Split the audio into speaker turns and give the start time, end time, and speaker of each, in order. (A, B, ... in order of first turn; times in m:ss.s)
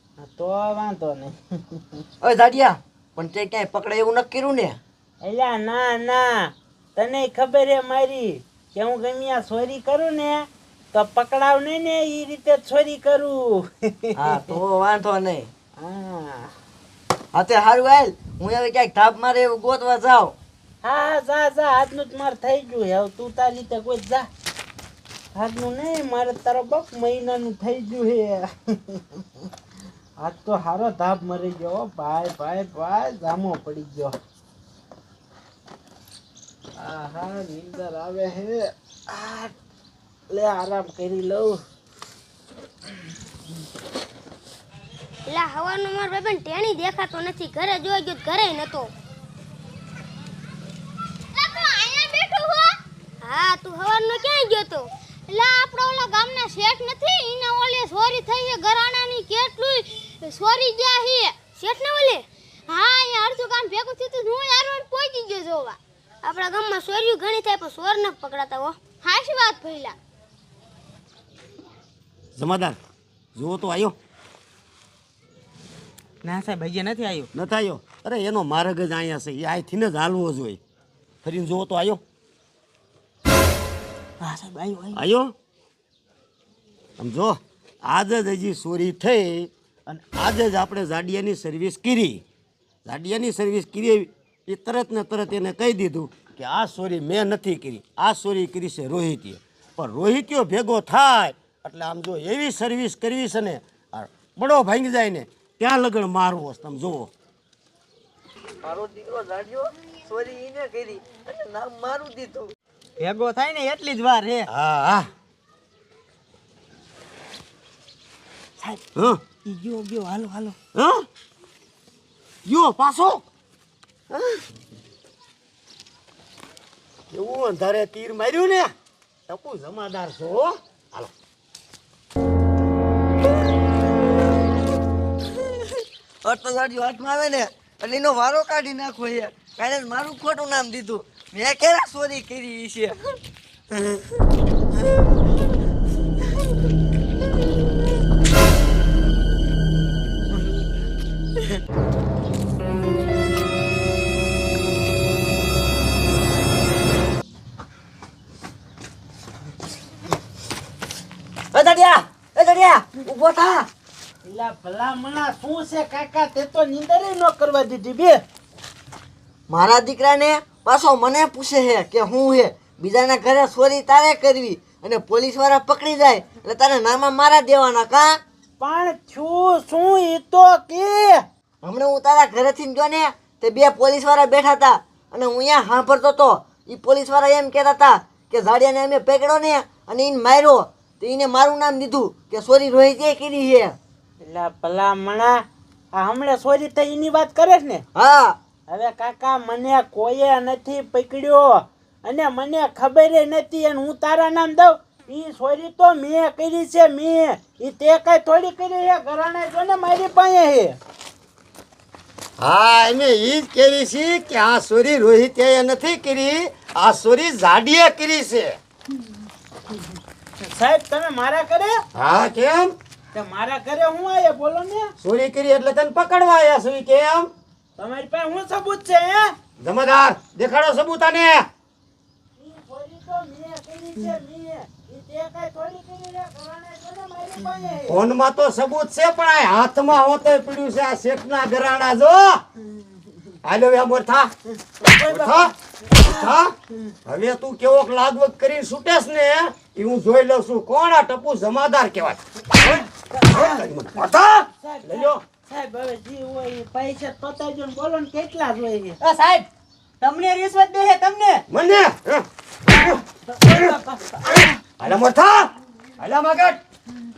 0:00.2-0:02.0 A
0:02.2-0:04.8 B
0:05.2-0:14.3 A
0:14.2-0:15.5 B
0:15.8-0:16.5 A
0:17.3-0:20.4 B
0:20.8-0:24.3 A
0:25.3-0:29.2 A
0:30.2-0:34.2 A
0:36.8-0:39.5 A
0:40.3-0:41.6 A
0:45.3-0:48.9 C
0:51.4-1:10.0 C
1:12.4-1:12.8 D
1:13.4-1:14.0 D
1:16.2-1:17.3 E
1:17.3-1:20.6 D
1:21.2-1:22.0 D
1:24.2-1:25.0 E
1:25.0-1:25.3 D
1:27.0-1:32.2 D
1:32.8-1:47.1 D
1:48.6-1:52.5 B
1:53.0-1:54.5 E
1:54.5-1:55.1 D
1:59.0-1:59.2 D
1:59.4-2:00.6 E
2:00.8-2:01.0 D
2:02.5-2:03.2 D
2:07.1-2:08.7 D
2:09.3-2:11.1 D
2:15.7-2:23.0 B
2:41.5-2:43.7 B
2:44.2-2:48.2 A
2:49.5-2:58.2 B
2:58.6-3:01.2 A
3:01.6-3:13.8 B
3:14.2-3:15.4 A
3:15.9-3:17.8 A
3:18.0-3:18.4 B
3:18.7-3:30.8 A
3:32.4-3:38.6 D
3:40.4-3:41.8 A
3:42.0-3:42.7 D
3:43.1-3:44.9 A
3:45.0-3:47.3 D
3:47.8-3:49.3 A
3:49.6-3:51.4 D
3:52.4-3:58.0 A
3:57.9-4:02.4 D
4:03.4-4:04.3 D
4:04.8-4:06.3 A
4:05.0-4:06.5 D
4:07.1-4:12.2 D
4:13.2-4:15.2 D
4:14.6-4:19.0 A
4:19.0-4:19.5 E
4:20.0-4:21.4 E
4:21.5-4:22.3 D
4:23.5-4:23.8 A
4:24.8-4:26.6 D